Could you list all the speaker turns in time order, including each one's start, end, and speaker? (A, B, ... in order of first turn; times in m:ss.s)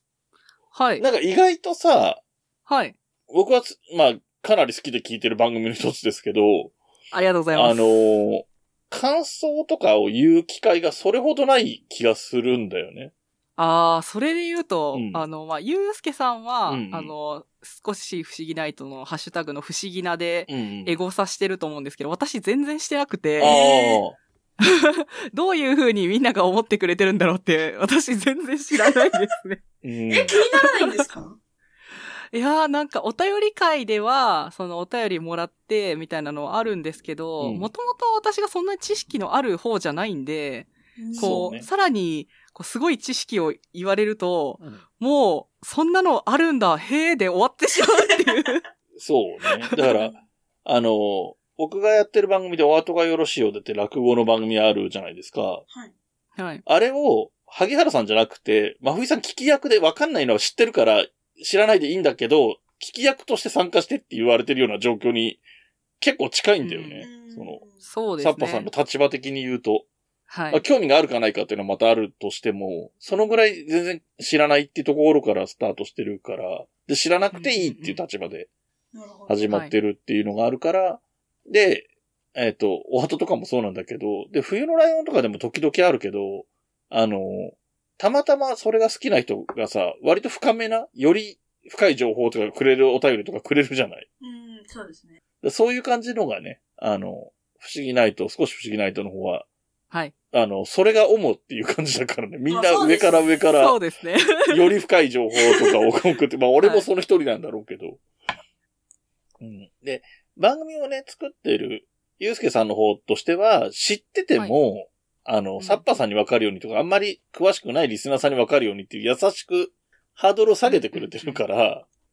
0:00.7-0:01.0 A
0:01.0-0:02.2 B
0:02.7-0:02.9 A
0:03.3-0:06.7 B
0:07.1-0:07.9 A
0:07.5-0:13.1 B
0:13.6-0:23.6 A
0:14.9-0:15.2 B
0:16.7-0:17.1 B
0:20.5-0:21.0 B
0:23.4-0:24.2 B
0:23.4-0:24.0 C
0:24.6-0:29.6 A
0:29.8-0:30.4 B
0:30.1-0:31.4 C
0:30.6-0:31.0 A
0:32.3-0:48.6 A
0:37.4-0:37.7 B
0:41.0-0:41.5 C
0:41.2-0:41.7 B
0:49.0-0:50.1 B
0:49.7-0:50.2 C
0:50.6-0:55.6 B
0:56.4-0:56.6 A
0:56.6-1:05.4 B
1:06.0-1:07.6 B
1:06.6-1:07.1 A
1:07.0-1:07.8 C
1:07.8-1:08.7 A
1:08.2-1:09.9 B
1:10.3-1:10.6 A
1:10.5-1:18.5 B
1:17.3-1:18.0 A
1:18.9-1:19.4 C
1:19.3-1:34.0 B
1:34.2-1:35.2 C
1:35.4-1:39.5 B
1:40.3-1:43.8 B
1:42.5-1:43.3 C
1:43.6-1:44.6 A
1:44.5-1:48.0 B
1:46.6-1:46.8 A
1:49.4-2:01.8 B
1:55.6-1:55.8 A
2:00.6-2:01.4 A